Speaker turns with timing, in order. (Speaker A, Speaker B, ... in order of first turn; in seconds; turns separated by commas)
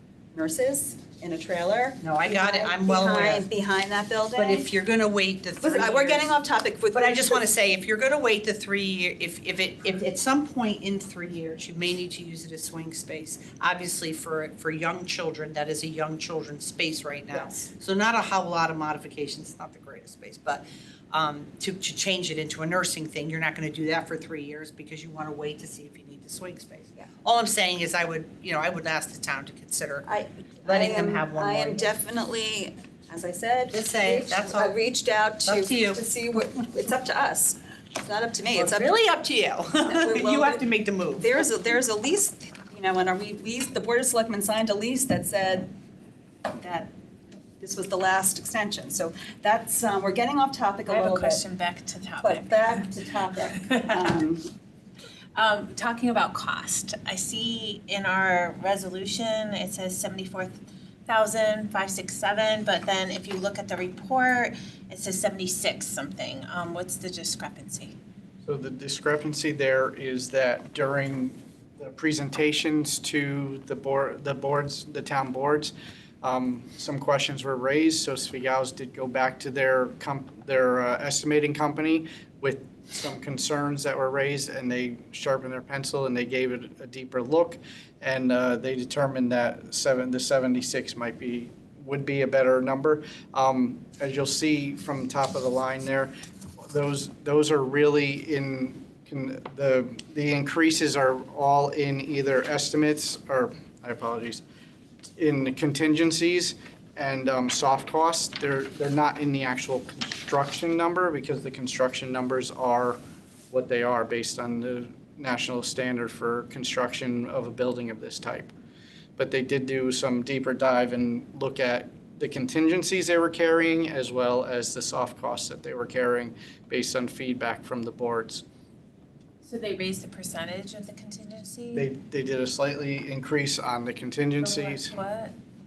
Speaker A: 0.3-4.7, Speaker B: 2.0-3.4, Speaker B: 4.3-6.3, Speaker A: 5.6-7.4, Speaker B: 6.9-30.1, Speaker A: 17.3-17.7, Speaker A: 30.1-38.9, Speaker B: 30.6-31.9, Speaker B: 33.7-34.7, Speaker B: 35.4-36.0, Speaker B: 38.5-41.3, Speaker A: 39.9-40.6, Speaker A: 41.2-45.7, Speaker A: 46.5-46.9, Speaker A: 47.6-51.4, Speaker C: 50.9-52.8, Speaker A: 52.2-54.5, Speaker C: 53.7-54.1, Speaker C: 55.4-60.5, Speaker C: 61.1-67.9, Speaker D: 68.4-96.1, Speaker D: 96.6-104.4, Speaker D: 105.2-113.0, Speaker D: 113.5-118.5, Speaker D: 119.2-128.4, Speaker C: 129.4-131.9, Speaker D: 131.7-135.0, Speaker C: 134.4-135.3